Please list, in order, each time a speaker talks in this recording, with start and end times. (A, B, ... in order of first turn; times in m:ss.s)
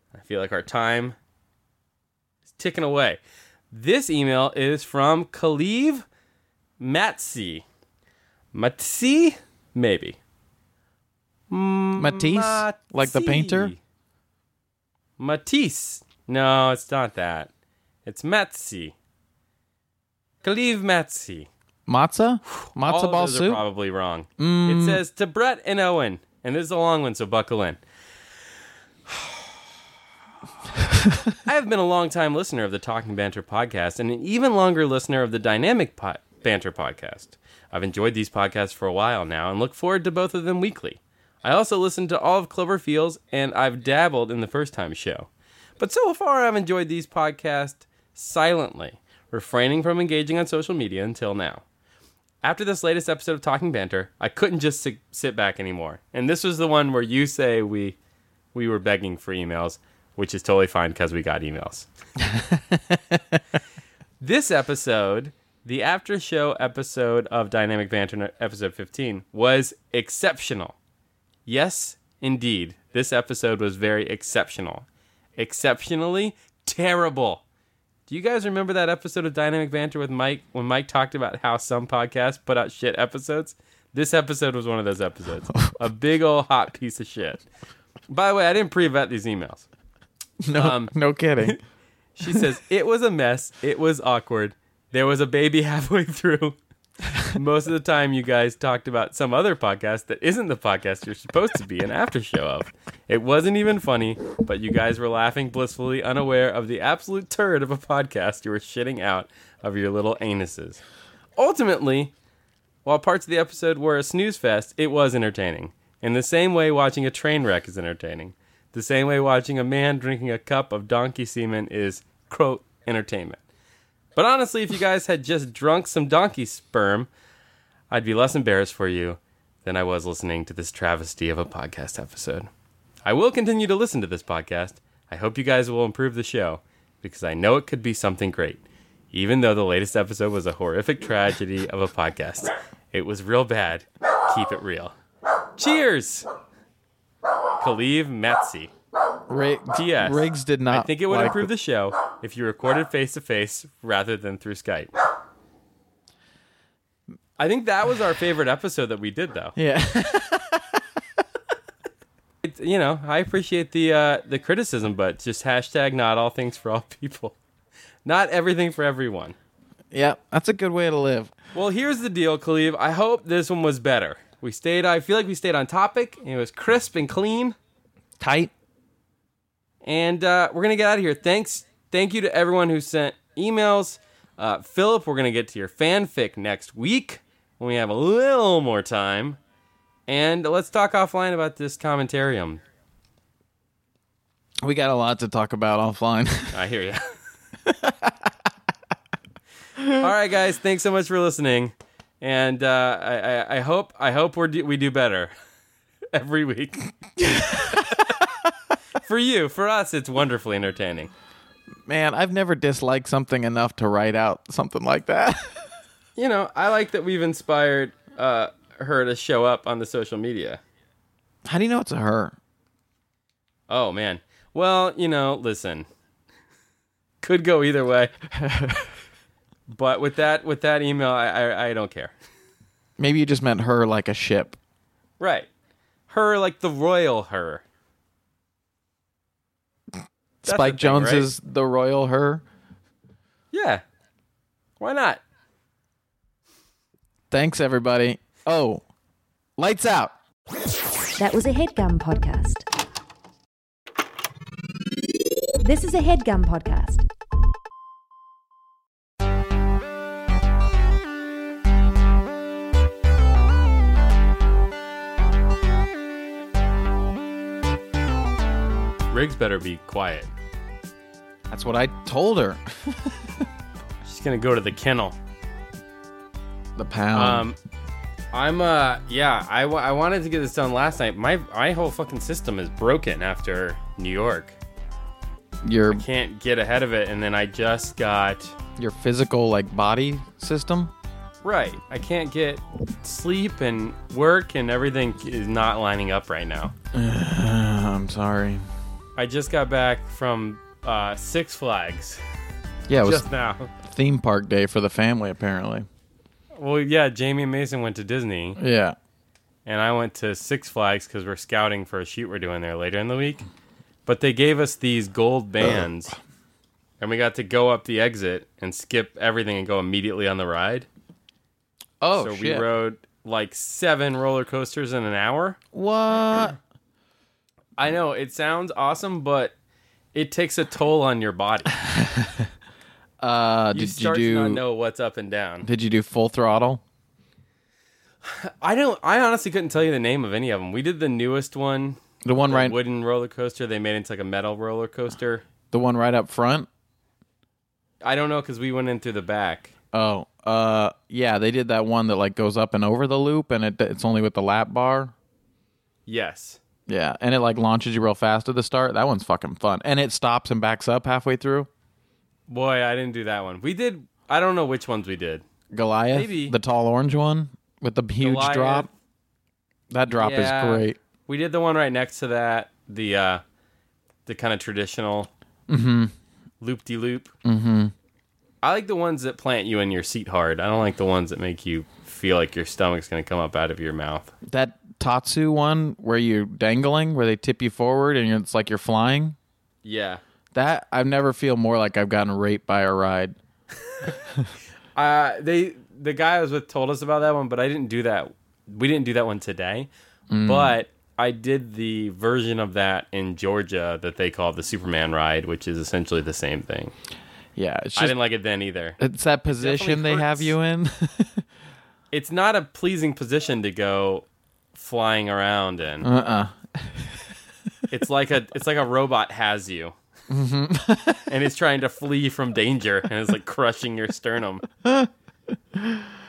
0:00.1-0:01.2 A
0:02.5-0:03.2 A
0:03.7-0:06.0 A
0:06.8-0:07.6 A
0:08.5-0:10.2 A
0:11.5-0:13.8 A
0:12.0-0:13.7 B
0:15.2-0:17.5 A
0:18.0-0:18.9 A
0:20.4-0:21.5 A
0:21.9-0:23.6 B
0:22.8-0:27.8 A
0:24.4-0:25.0 B
0:29.1-0:29.5 A
0:31.4-0:51.6 A
0:52.4-0:58.0 A
0:58.5-1:01.9 A
1:02.2-1:03.4 B
1:04.2-1:10.8 A
1:11.4-1:14.8 A
1:15.4-1:17.4 A
1:18.1-1:27.4 A
1:28.1-1:29.7 A
1:30.4-1:31.6 B
1:30.5-1:31.6 A
1:32.1-1:36.6 A
1:37.2-1:50.8 A
1:51.4-1:52.1 A
1:52.8-2:03.4 A
2:04.2-2:07.1 A
2:07.9-2:12.5 A
2:13.0-2:25.0 A
2:25.6-2:26.3 A
2:27.6-2:28.7 A
2:29.3-2:31.5 B
2:29.7-2:34.9 A
2:37.4-2:39.6 A
2:39.6-2:40.8 B
2:42.4-2:47.4 A
2:48.0-2:49.3 A
2:49.9-2:51.3 B
2:51.5-2:57.6 A
2:58.2-2:58.5 B
2:59.8-3:09.4 A
3:10.1-3:12.6 A
3:14.6-3:16.6 B
3:16.5-3:17.0 A
3:17.6-3:18.3 B
3:19.9-3:25.3 A
3:26.1-3:26.9 A
3:27.2-3:28.3 B
3:29.0-3:31.1 A
3:31.8-3:35.6 B
3:36.2-3:40.6 A
3:41.4-3:42.3 B
3:43.7-3:45.8 A
3:47.2-3:48.1 A
3:48.4-3:48.9 B
3:49.7-3:52.1 A
3:53.0-3:54.6 B
3:55.2-3:55.5 A
3:56.1-3:57.6 A
4:00.4-4:02.4 B
4:00.4-4:01.3 A
4:03.5-4:03.8 A
4:04.8-4:05.2 A
4:07.3-4:08.8 B
4:09.6-4:10.1 B
4:11.2-4:12.6 C
4:15.6-4:17.0 C
4:29.1-4:30.3 A
4:31.5-4:33.4 B
4:34.0-4:35.2 A
4:36.8-4:37.4 B
4:37.1-4:37.6 A
4:38.3-4:44.6 A
4:45.6-4:46.0 B
4:45.9-4:48.6 A
4:48.8-4:50.9 B
4:51.4-4:56.7 A
4:56.9-4:58.6 B
4:59.2-5:02.2 A
5:02.9-5:03.2 B
5:03.0-5:03.7 A
5:03.8-5:05.9 B
5:06.6-5:08.6 A
5:08.6-5:09.0 B
5:09.6-5:13.4 A
5:14.0-5:16.1 A
5:17.0-5:20.9 A
5:22.0-5:22.6 B
5:22.2-5:25.6 A
5:25.7-5:26.6 B
5:27.8-5:29.5 A
5:30.1-5:31.8 A
5:31.9-5:32.5 B
5:33.2-5:34.6 B
5:33.7-5:35.7 A
5:35.6-5:36.8 B
5:38.2-5:45.4 A
5:42.2-5:42.8 B
5:45.7-5:46.7 B
5:48.0-5:49.7 A
5:49.9-5:55.1 B
5:56.1-5:56.6 A
5:56.9-6:01.7 B
6:02.5-6:05.4 A
6:05.7-6:08.9 B
6:06.1-6:06.6 A
6:08.2-6:08.9 A
6:09.9-6:11.0 B
6:10.1-6:13.4 A
6:14.2-6:15.3 A
6:15.7-6:16.1 B
6:16.6-6:17.3 A
6:17.4-6:17.9 B
6:18.6-6:24.3 A
6:24.5-6:29.4 B
6:29.8-6:30.2 A
6:30.5-6:33.3 B
6:34.1-6:34.5 B
6:35.0-6:39.9 A
6:40.3-6:40.8 B
6:40.4-6:46.9 A
6:47.6-6:48.1 B
6:48.0-6:49.0 A
6:49.0-6:51.4 B
6:49.5-6:50.5 A
6:52.1-6:56.1 A
6:56.0-6:57.1 B
6:57.9-6:59.9 A
7:00.3-7:01.3 B
7:01.3-7:04.6 A
7:04.8-7:05.1 B
7:05.7-7:06.1 B